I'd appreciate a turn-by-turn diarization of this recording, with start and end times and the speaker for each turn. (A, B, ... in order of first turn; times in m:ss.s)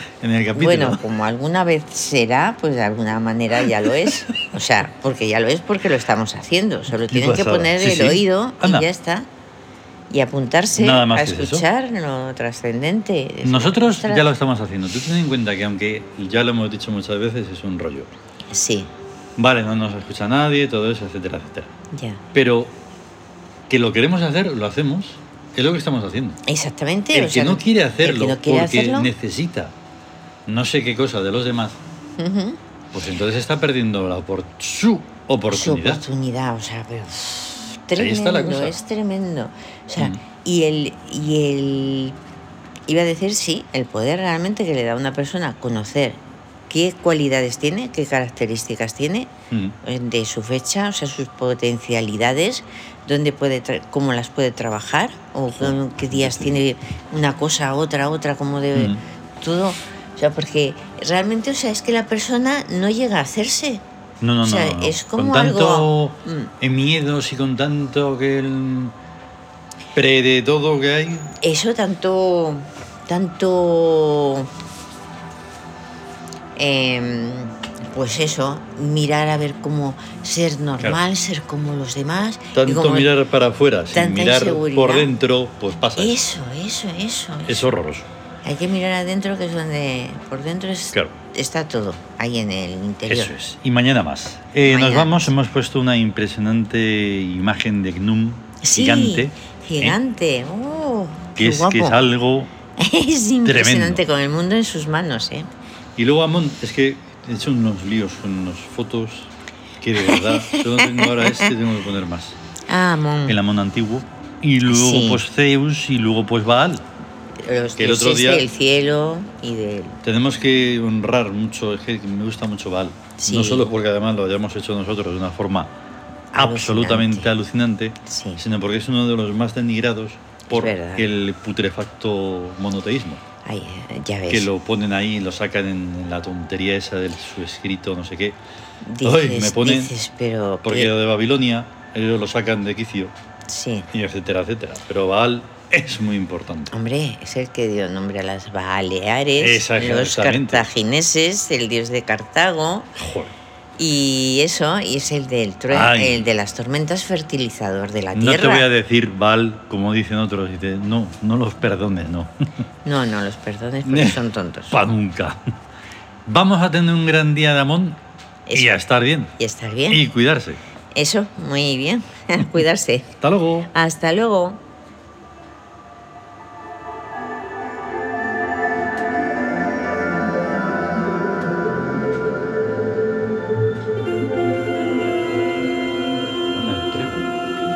0:00.2-0:01.0 A
0:00.5-0:09.3 B
0:03.7-0:03.9 A
0:07.1-0:08.9 A
0:10.1-0:14.3 B
0:10.8-0:11.6 A
0:13.4-0:18.1 A
0:18.5-0:18.9 B
0:19.4-0:21.7 A
0:21.9-0:22.2 B
0:22.3-0:22.7 A
0:23.7-0:26.4 A
0:26.5-0:29.1 B
0:27.1-0:29.7 A
0:30.5-0:31.8 A
0:32.2-0:32.6 B
0:32.9-0:36.0 A
0:35.5-0:42.2 B
0:38.0-0:38.8 A
0:42.9-0:49.3 B
0:49.5-0:49.8 A
0:49.8-1:03.8 B
0:55.6-0:56.6 A
0:58.8-0:59.0 A
1:04.2-1:09.0 A
1:04.4-1:06.5 B
1:09.9-1:11.3 A
1:11.4-1:14.5 B
1:16.6-1:23.1 B
1:22.5-1:26.2 A
1:23.9-1:25.1 B
1:26.0-1:27.7 B
1:27.5-1:28.1 A
1:28.4-1:33.3 B
1:33.1-1:40.0 A
1:34.7-1:35.3 B
1:38.6-1:42.0 B
1:41.4-1:42.5 A
1:42.8-1:45.5 B
1:43.4-1:44.0 A
1:46.0-1:52.4 A
1:50.0-1:51.5 B
1:52.7-1:53.4 B
1:53.3-1:56.8 A
1:54.7-1:55.2 B
1:57.4-2:00.0 B
1:57.8-1:58.5 A
2:00.0-2:05.7 A
2:03.2-2:03.7 B
2:06.3-2:07.3 B
2:06.3-2:13.2 A
2:08.1-2:08.4 B
2:10.5-2:11.1 B
2:13.4-2:14.5 B
2:14.3-2:18.4 A
2:18.8-2:20.9 B
2:19.0-2:19.9 A
2:20.6-2:23.1 A
2:23.5-2:23.9 B
2:23.9-2:26.7 A
2:26.7-2:32.9 B
2:29.4-2:30.7 A
2:33.0-2:33.3 A
2:33.8-2:38.7 B
2:35.7-2:36.3 A
2:38.1-2:42.3 A
2:42.8-2:44.8 B
2:43.8-2:44.2 A
2:44.7-2:45.5 A
2:46.3-2:48.0 A
2:48.5-2:48.9 B
2:48.5-2:49.3 A
2:49.4-2:50.0 B
2:49.9-2:50.6 A
2:50.9-2:53.1 B
2:53.2-2:53.7 A
2:53.7-2:54.6 B
3:06.5-3:07.3 A